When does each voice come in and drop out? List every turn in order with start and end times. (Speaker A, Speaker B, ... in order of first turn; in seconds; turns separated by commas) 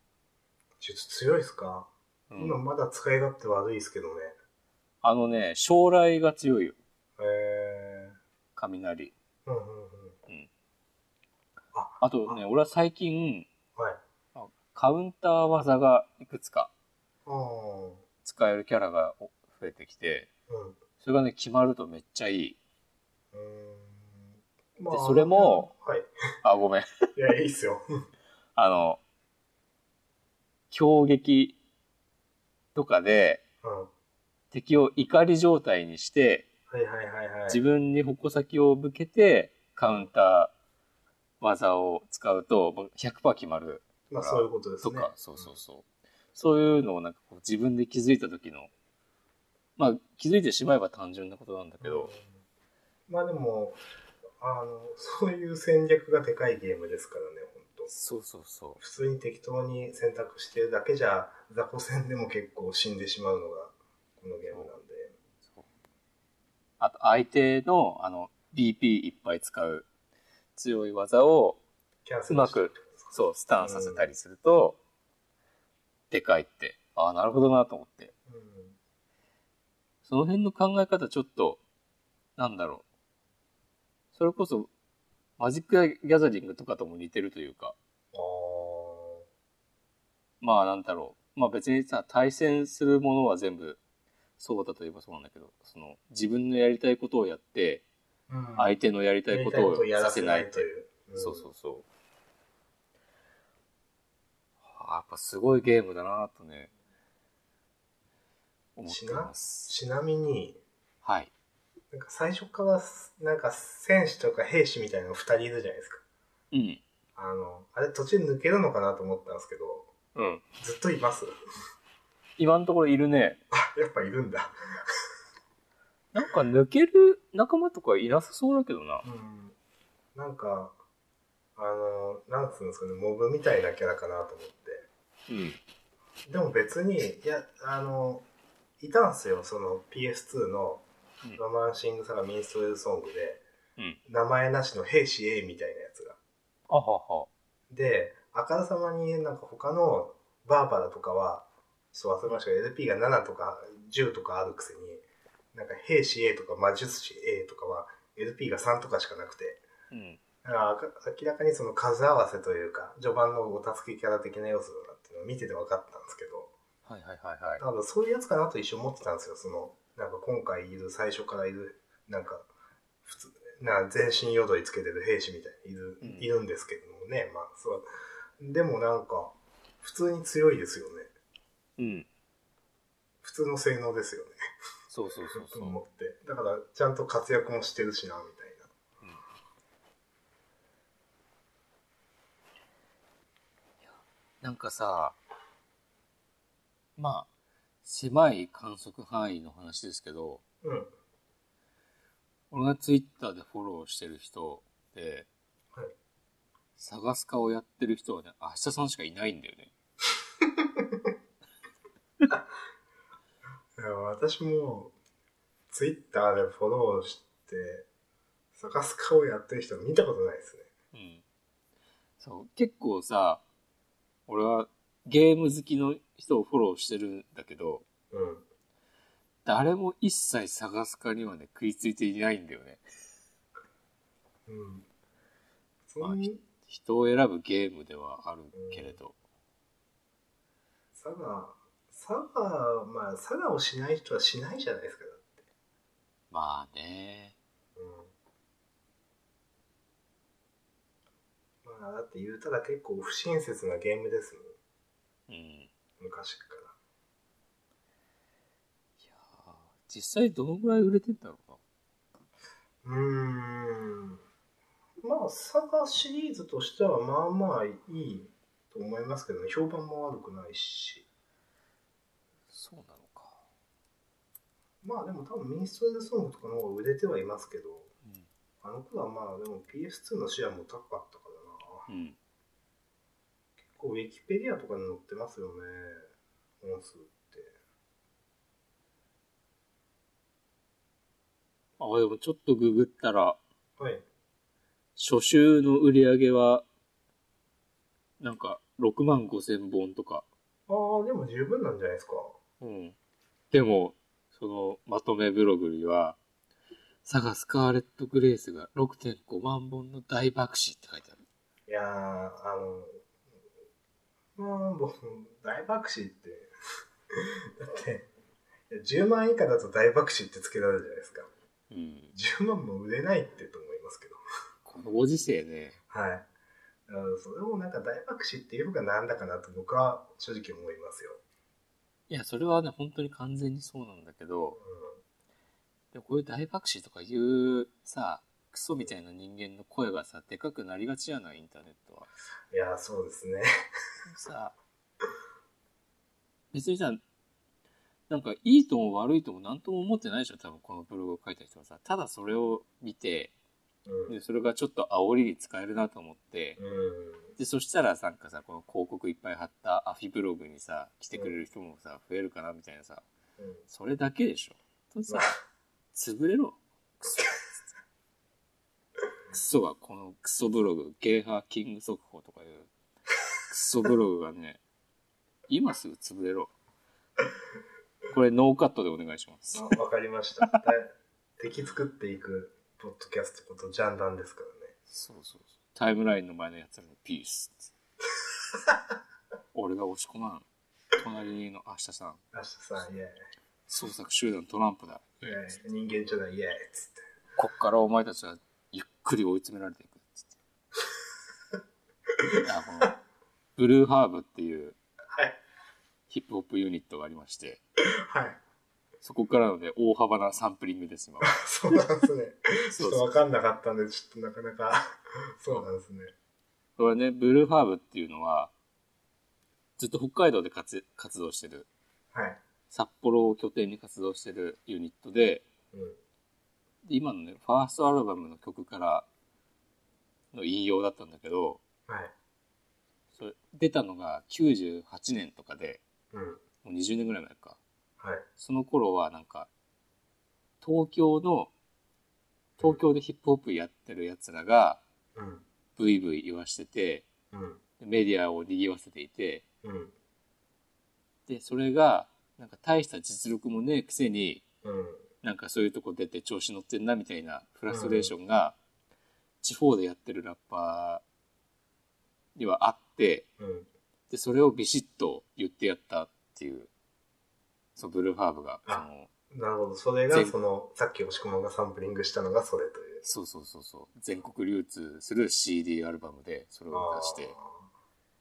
Speaker A: 0.8-4.4, Speaker B: 2.3-2.6, Speaker B: 5.0-6.8, Speaker A: 7.2-8.2, Speaker B: 8.6-9.1, Speaker A: 9.5-10.2, Speaker A: 11.7-12.4, Speaker B: 12.0-13.5, Speaker A: 13.8-14.0, Speaker B: 14.3-16.7, Speaker A: 17.3-18.0, Speaker B: 18.2-20.3, Speaker A: 20.5-20.8, Speaker B: 21.0-22.6, Speaker A: 23.3-26.1, Speaker B: 24.9-25.7, Speaker B: 26.4-26.9, Speaker A: 27.2-27.8, Speaker B: 28.6-29.0, Speaker B: 30.7-31.6, Speaker B: 32.8-33.4, Speaker A: 33.6-33.9, Speaker B: 34.5-36.5, Speaker A: 36.7-37.6, Speaker B: 37.5-40.5, Speaker B: 41.4-48.7, Speaker A: 44.1-45.5, Speaker B: 49.8-52.1, Speaker A: 51.8-52.4, Speaker A: 53.1-53.8, Speaker A: 54.4-57.9, Speaker B: 57.9-58.8, Speaker A: 58.8-65.1, Speaker B: 66.8-69.9, Speaker B: 70.6-71.6, Speaker A: 72.0-74.0, Speaker B: 72.3-74.8, Speaker B: 76.1-78.1, Speaker A: 78.3-78.8, Speaker B: 80.0-81.6, Speaker B: 82.4-82.8, Speaker B: 84.2-84.7, Speaker B: 85.4-87.8, Speaker A: 88.1-89.2, Speaker B: 90.4-93.8, Speaker B: 94.4-97.8, Speaker A: 98.3-98.8, Speaker B: 98.6-101.8, Speaker A: 99.3-101.5, Speaker B: 104.7-106.7, Speaker B: 108.8-109.7, Speaker A: 108.9-110.6, Speaker B: 111.0-111.3, Speaker A: 111.9-116.0, Speaker B: 116.5-116.8, Speaker A: 117.2-119.9, Speaker B: 120.2-120.4, Speaker A: 120.6-121.3, Speaker B: 122.4-123.4, Speaker A: 123.5-125.0, Speaker B: 126.1-129.1, Speaker A: 129.0-129.6, Speaker A: 130.2-130.7, Speaker A: 131.6-134.9, Speaker B: 135.3-135.6, Speaker A: 136.3-138.2, Speaker A: 138.8-140.9, Speaker A: 141.4-143.4, Speaker A: 144.1-146.2, Speaker B: 146.7-147.3, Speaker A: 147.7-159.6, Speaker B: 159.9-160.2, Speaker A: 160.4-166.5, Speaker B: 166.9-167.6, Speaker A: 167.6-172.5, Speaker A: 173.1-177.9, Speaker B: 176.0-176.3, Speaker A: 178.4-181.1, Speaker B: 181.8-182.1, Speaker A: 183.2-184.4, Speaker B: 184.9-185.8, Speaker A: 185.3-188.7, Speaker B: 193.9-195.2, Speaker B: 197.0-197.3, Speaker B: 197.8-200.4, Speaker A: 200.6-200.9, Speaker B: 202.5-205.3, Speaker B: 206.8-209.7, Speaker A: 210.4-211.1, Speaker A: 213.8-214.9, Speaker A: 215.7-217.9, Speaker A: 218.6-220.7, Speaker B: 220.9-221.2, Speaker B: 222.2-223.4, Speaker B: 224.3-227.8, Speaker A: 228.1-228.4, Speaker B: 229.4-232.8, Speaker A: 234.5-234.9, Speaker A: 235.9-236.4, Speaker B: 236.0-239.2, Speaker A: 238.6-239.0, Speaker A: 241.0-245.4, Speaker B: 246.3-247.4, Speaker A: 247.8-248.1, Speaker A: 251.6-254.6, Speaker B: 255.3-255.7, Speaker A: 256.0-256.8, Speaker B: 259.0-261.6, Speaker A: 262.8-264.2, Speaker A: 265.0-271.1, Speaker B: 272.5-273.4, Speaker A: 274.8-277.9, Speaker A: 278.6-281.9, Speaker B: 281.9-282.2, Speaker A: 283.7-286.1, Speaker A: 286.6-287.6, Speaker B: 291.8-293.4, Speaker A: 293.8-294.0, Speaker B: 295.0-296.6, Speaker B: 298.2-300.2, Speaker A: 300.7-302.4, Speaker B: 302.6-302.9, Speaker B: 303.5-306.2, Speaker B: 307.1-311.2, Speaker A: 311.7-313.0, Speaker A: 314.4-316.5, Speaker A: 317.1-318.1, Speaker A: 318.7-321.3, Speaker B: 321.7-322.1, Speaker A: 322.1-324.2, Speaker B: 324.6-325.8, Speaker A: 325.9-326.3, Speaker A: 326.9-331.2, Speaker B: 332.1-334.6, Speaker A: 334.6-335.0, Speaker B: 335.9-342.1, Speaker A: 342.5-343.5, Speaker B: 344.1-344.6, Speaker B: 346.5-347.0, Speaker B: 348.1-353.3, Speaker A: 353.9-354.1, Speaker B: 354.1-356.6, Speaker A: 356.6-357.3, Speaker B: 357.4-363.1, Speaker B: 363.7-365.4, Speaker A: 365.1-365.4, Speaker B: 365.9-367.4, Speaker B: 369.3-372.7, Speaker B: 373.5-374.6, Speaker B: 375.5-376.5, Speaker B: 378.1-379.8, Speaker A: 379.5-384.7, Speaker B: 384.9-387.7, Speaker B: 389.5-390.4, Speaker B: 391.0-392.2, Speaker A: 392.3-393.2, Speaker B: 393.7-395.3, Speaker A: 395.2-397.0, Speaker B: 397.4-400.4, Speaker A: 402.1-402.8, Speaker B: 402.4-403.0, Speaker B: 403.6-404.8, Speaker A: 405.1-405.4, Speaker B: 406.1-407.6, Speaker A: 407.8-408.4, Speaker B: 409.0-411.4, Speaker A: 411.2-416.1, Speaker B: 412.7-413.1, Speaker B: 416.8-418.5, Speaker B: 419.8-421.7, Speaker A: 422.1-422.4, Speaker B: 422.7-425.4, Speaker A: 425.7-426.0, Speaker B: 426.9-429.1, Speaker B: 430.3-431.6, Speaker A: 431.9-432.1, Speaker B: 433.1-435.8, Speaker A: 436.1-436.4, Speaker B: 436.6-437.6, Speaker A: 438.0-438.3, Speaker B: 438.4-439.5, Speaker B: 440.6-441.5, Speaker B: 442.6-444.8, Speaker A: 445.2-445.4, Speaker B: 445.8-447.1, Speaker A: 447.3-447.6, Speaker B: 447.8-449.4, Speaker A: 449.6-449.9, Speaker B: 451.3-454.4, Speaker A: 454.6-455.1, Speaker B: 455.2-458.6, Speaker A: 457.7-458.1, Speaker B: 459.4-461.0, Speaker B: 462.4-463.3, Speaker A: 463.4-463.7, Speaker B: 464.1-466.7, Speaker B: 467.8-469.1, Speaker A: 468.7-473.1, Speaker B: 473.0-477.3, Speaker A: 476.7-477.7